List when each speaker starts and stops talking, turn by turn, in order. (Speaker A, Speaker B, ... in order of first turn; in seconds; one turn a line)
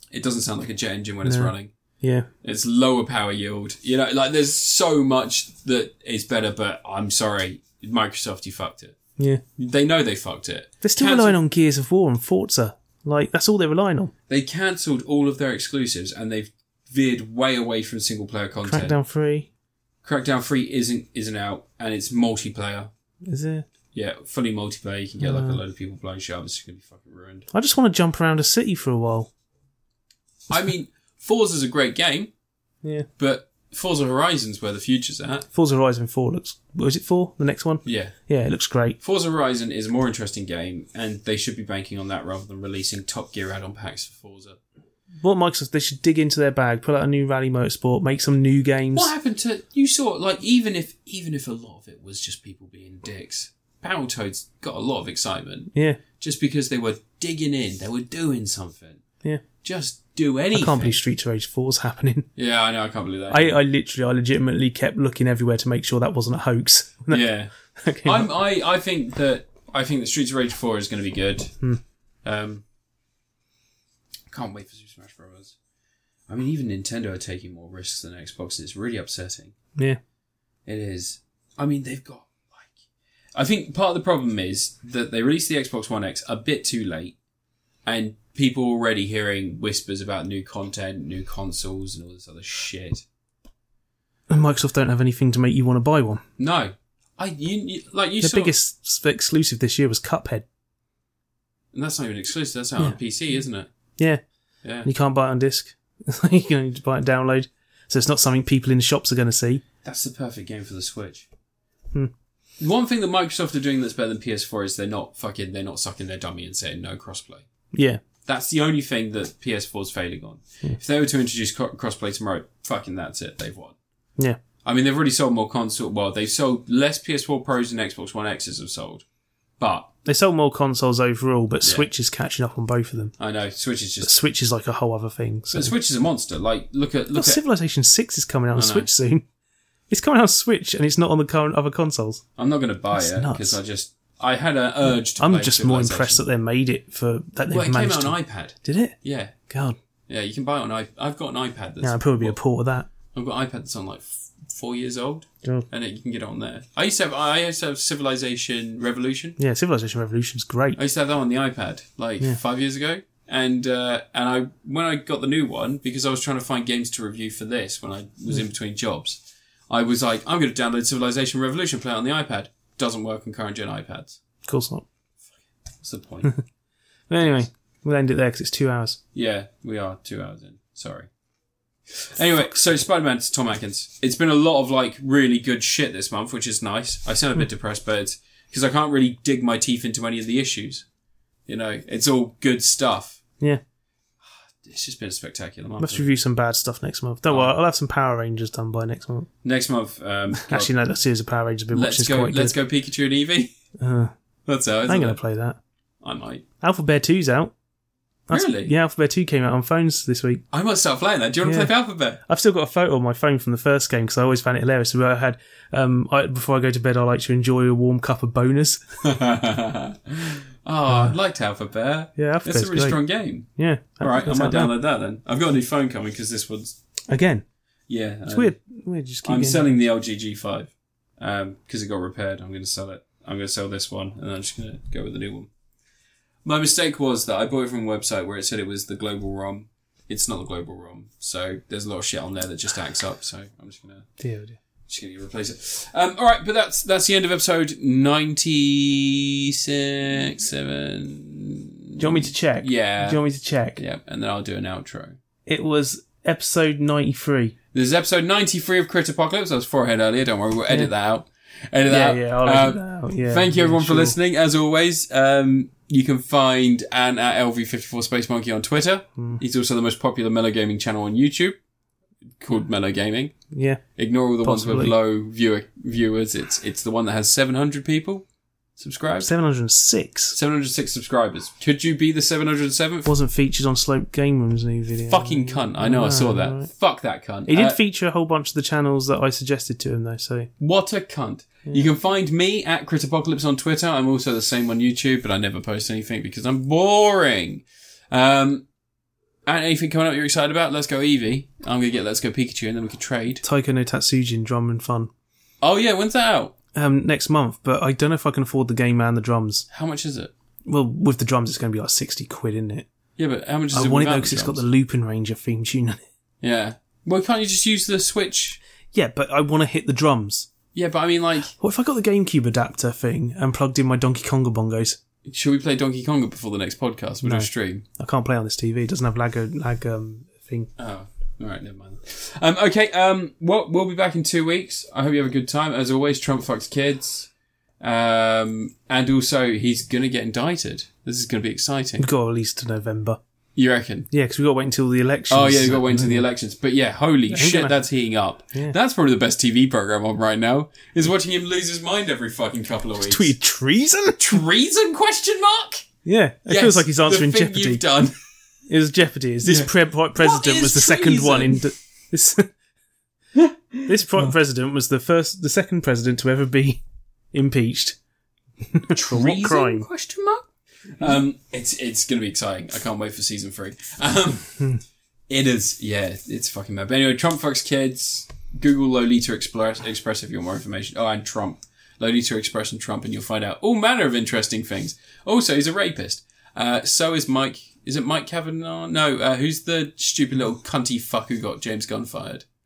Speaker A: 0.1-1.7
Speaker B: 1.2-2.3
Speaker A: 2.4-9.0
Speaker A: 9.6-11.4
Speaker B: 10.8-14.1
Speaker A: 14.3-19.0
Speaker B: 18.6-19.5
Speaker A: 20.0-22.9
Speaker B: 23.3-23.6
Speaker A: 23.9-27.5
Speaker B: 25.2-25.6
Speaker B: 27.5-29.3
Speaker A: 30.5-32.3
Speaker B: 32.8-33.1
Speaker A: 33.2-35.5
Speaker B: 35.5-39.0
Speaker A: 37.9-38.1
Speaker A: 39.0-44.6
Speaker B: 45.2-49.1
Speaker A: 49.0-59.0
Speaker B: 55.7-56.0
Speaker A: 59.6-61.0
Speaker B: 60.5-62.3
Speaker A: 62.4-63.5
Speaker B: 63.3-68.3
Speaker A: 67.1-67.5
Speaker A: 68.0-71.5
Speaker A: 72.2-72.6
Speaker A: 74.3-75.6
Speaker A: 76.3-79.5
Speaker A: 80.7-82.7
Speaker A: 83.3-87.2
Speaker A: 87.8-93.0
Speaker B: 94.3-96.2
Speaker A: 96.4-98.5
Speaker B: 98.2-100.5
Speaker A: 101.7-103.7
Speaker A: 104.6-104.9
Speaker B: 104.8-109.6
Speaker A: 109.8-111.3
Speaker A: 112.6-117.5
Speaker B: 117.7-118.0
Speaker A: 118.2-123.8
Speaker A: 124.6-129.1
Speaker A: 129.6-129.9
Speaker B: 130.1-133.1
Speaker A: 133.2-134.1
Speaker B: 134.0-135.7
Speaker A: 135.5-137.4
Speaker B: 137.2-139.2
Speaker A: 138.6-138.9
Speaker B: 139.9-142.2
Speaker A: 142.4-146.2
Speaker B: 142.9-143.6
Speaker B: 144.9-148.9
Speaker A: 147.5-149.4
Speaker B: 149.5-149.8
Speaker A: 150.1-152.4
Speaker B: 151.8-152.9
Speaker A: 153.1-159.4
Speaker B: 159.4-160.8
Speaker A: 160.8-174.2
Speaker B: 174.5-174.8
Speaker A: 175.8-176.3
Speaker B: 177.1-179.0
Speaker A: 179.1-181.1
Speaker A: 182.1-190.8
Speaker A: 191.5-193.2
Speaker A: 194.2-196.1
Speaker B: 195.8-199.3
Speaker A: 197.3-197.5
Speaker A: 199.4-200.7
Speaker B: 200.4-202.6
Speaker A: 201.7-203.5
Speaker B: 203.8-204.1
Speaker A: 204.5-205.2
Speaker B: 204.9-205.6
Speaker A: 206.0-206.4
Speaker B: 206.6-207.5
Speaker B: 208.3-210.4
Speaker A: 208.3-208.7
Speaker A: 210.5-212.2
Speaker B: 211.4-211.7
Speaker B: 212.2-218.8
Speaker A: 219.0-223.5
Speaker B: 220.9-221.2
Speaker B: 222.2-224.7
Speaker A: 224.0-226.8
Speaker B: 227.1-227.4
Speaker A: 227.9-228.6
Speaker B: 228.3-229.6
Speaker A: 229.2-235.5
Speaker A: 236.4-244.1
Speaker B: 244.2-244.6
Speaker A: 244.9-253.2
Speaker B: 252.0-253.8
Speaker A: 253.8-255.2
Speaker B: 255.5-257.6
Speaker A: 257.7-271.6
Speaker B: 261.9-264.1
Speaker A: 272.4-273.3
Speaker B: 273.5-273.8
Speaker A: 274.0-278.2
Speaker B: 274.4-274.9
Speaker A: 278.8-279.3
Speaker B: 279.2-280.4
Speaker A: 280.3-283.1
Speaker B: 283.1-286.7
Speaker A: 285.1-287.8
Speaker B: 287.5-290.5
Speaker A: 290.6-298.6
Speaker A: 299.5-303.4
Speaker B: 303.4-305.1
Speaker A: 305.6-306.5
Speaker B: 306.8-309.7
Speaker A: 309.7-310.3
Speaker B: 310.7-312.9
Speaker A: 313.2-314.6
Speaker B: 313.7-316.0
Speaker A: 316.4-318.6
Speaker B: 318.9-320.5
Speaker A: 320.7-321.5
Speaker B: 321.6-325.0
Speaker A: 325.2-327.8
Speaker B: 327.2-330.7
Speaker A: 330.8-337.3
Speaker A: 337.8-342.1
Speaker B: 342.0-343.2
Speaker A: 343.6-344.1
Speaker B: 344.1-346.3
Speaker A: 345.3-353.3
Speaker B: 347.3-347.8
Speaker B: 353.0-354.4
Speaker A: 354.2-355.9
Speaker B: 356.1-357.8
Speaker A: 356.5-358.1
Speaker B: 358.7-362.5
Speaker A: 359.4-361.7
Speaker A: 363.4-364.3
Speaker B: 363.9-368.0
Speaker B: 368.7-369.9
Speaker A: 368.9-374.6
Speaker A: 375.3-392.4